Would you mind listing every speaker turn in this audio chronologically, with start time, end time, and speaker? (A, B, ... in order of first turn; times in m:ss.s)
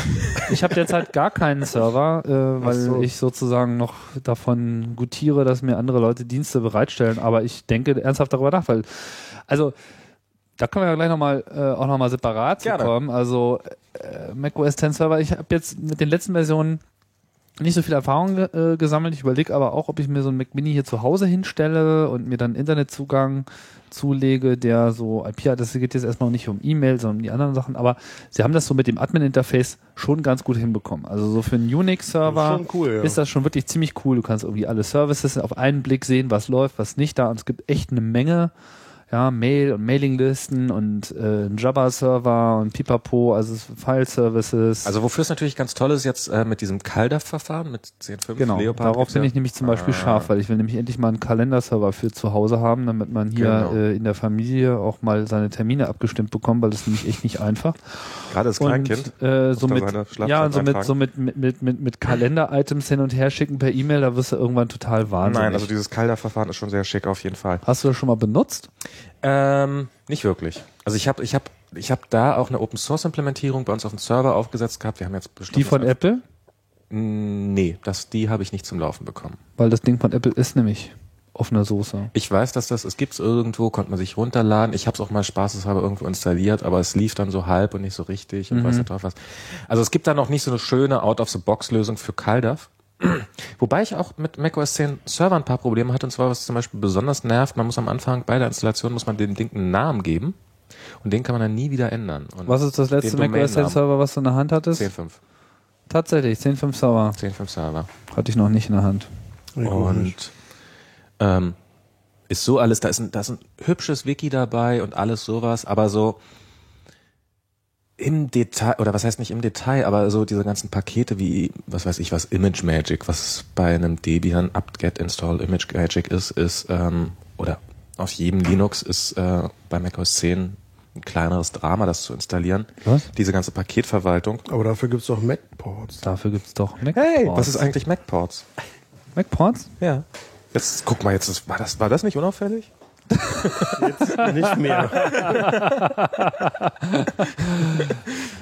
0:00.4-0:09.8 A
0:02.6-0:03.1 B
0:10.6-0:16.8 A
0:12.6-0:12.9 C
0:17.6-0:38.5 A
0:32.2-0:33.2 B
0:39.1-0:44.9 A
0:44.8-0:50.3 C
0:48.4-1:05.7 A
0:53.4-0:53.8 C
0:58.3-1:00.9 C
1:05.2-1:07.6 C
1:07.6-1:08.7 A
1:09.2-1:15.9 C
1:15.5-1:16.2 A
1:16.9-1:19.4 C
1:19.6-1:22.1 A
1:22.1-1:40.4 C
1:28.5-1:28.9 A
1:41.0-1:43.8 C
1:42.5-1:44.9 A
1:44.8-1:45.2 C
1:45.9-1:47.2 A
1:47.2-1:47.9 C
1:48.1-1:49.1 A
1:49.6-1:50.1 B
1:49.6-1:50.3 C
1:51.2-1:51.6 C
1:52.3-1:56.2 C
1:58.0-2:14.4 C
2:14.5-2:16.0 B
2:16.0-2:17.7 A
2:16.9-2:18.5 C
2:19.2-2:19.7 A
2:19.8-2:22.7 C
2:23.2-2:23.9 C
2:23.3-2:28.0 A
2:23.8-2:25.4 B
2:24.9-2:25.9 C